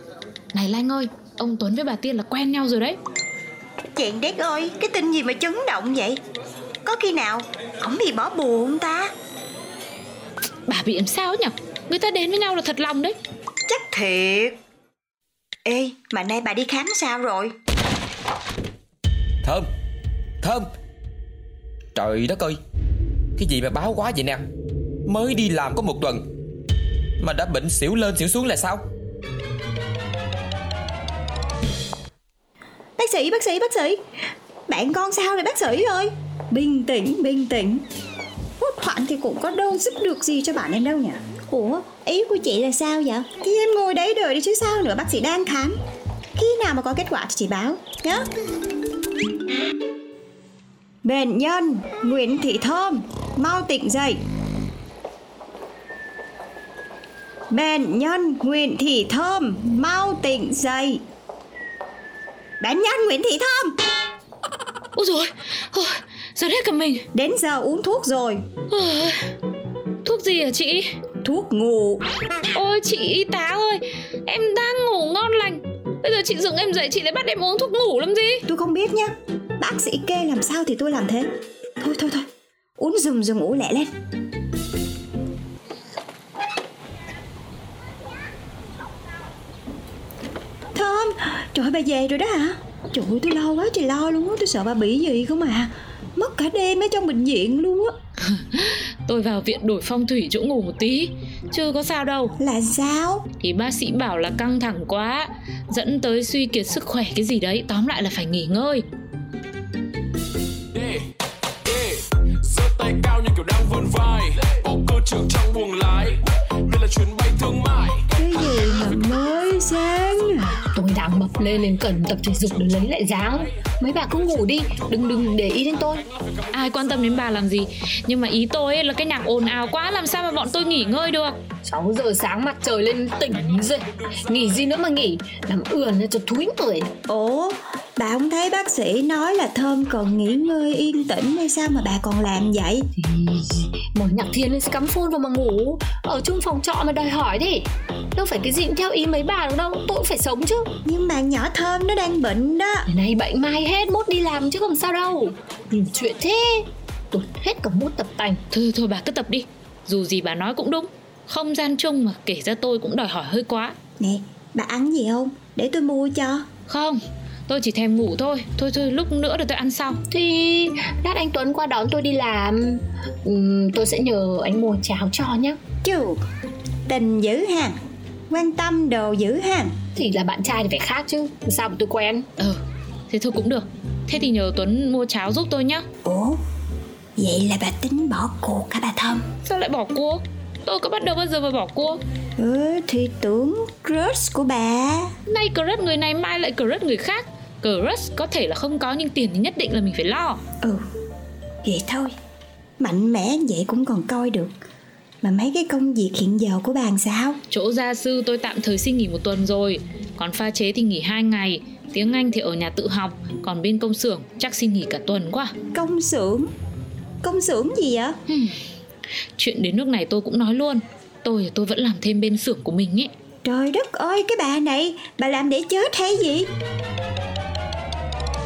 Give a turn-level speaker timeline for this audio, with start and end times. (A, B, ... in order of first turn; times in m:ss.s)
0:00.5-0:03.0 A
0:04.0-0:06.2 B
0:06.8-0:09.1 B
0:10.7-0:13.2 A
0:13.7-0:14.6 B
0:15.7-0:17.5 B
0:19.4-0:19.7 C
0:20.4-0:20.7 C
0:22.0-0:22.6 C
0:23.4-0:24.4 C
0:25.1-0:26.2 C
0:27.2-0:28.9 C
0:33.0-0:34.0 B
0:34.7-0:37.8 B
0:38.6-0:45.8 B
0:46.4-0:48.3 B
0:51.0-0:54.2 B
0:57.5-1:01.0 B
1:02.6-1:03.8 B
1:05.0-1:07.0 A
1:07.1-1:08.4 B
1:08.7-1:09.2 A
1:10.0-1:10.9 A
1:11.2-1:12.0 B
1:12.5-1:18.4 A
1:18.5-1:21.3 B
1:21.8-1:22.3 B
1:22.8-1:23.9 B
1:30.8-1:37.9 B
1:38.2-1:42.4 A
1:42.4-1:43.3 B
1:43.4-1:48.8 A
1:52.6-1:56.1 D
1:56.9-1:57.9 D
1:58.2-2:00.6 B
2:00.7-2:06.0 E
2:06.5-2:11.4 A
2:11.6-2:16.9 E
2:17.1-2:22.9 B
2:23.0-2:30.7 E
2:30.8-2:32.9 B
2:32.9-2:38.4 E
2:38.5-2:43.8 A
2:44.0-2:46.4 B
2:46.7-2:50.0 A
2:50.1-2:55.6 E
2:55.8-2:56.2 B
2:56.9-2:57.8 B
2:58.3-2:59.7 B
3:00.0-3:02.3 E
3:03.1-3:05.9 A
3:06.0-3:06.4 B
3:07.2-3:09.2 B
3:09.4-3:12.0 A
3:12.4-3:15.1 B
3:15.3-3:20.4 A
3:21.6-3:22.1 B
3:22.8-3:24.6 B
3:25.2-3:27.4 B
3:27.5-3:35.5 A
3:35.7-3:36.5 B
3:37.2-3:38.2 B
3:38.3-3:38.6 A
3:39.4-3:43.1 A
3:43.4-3:46.5 B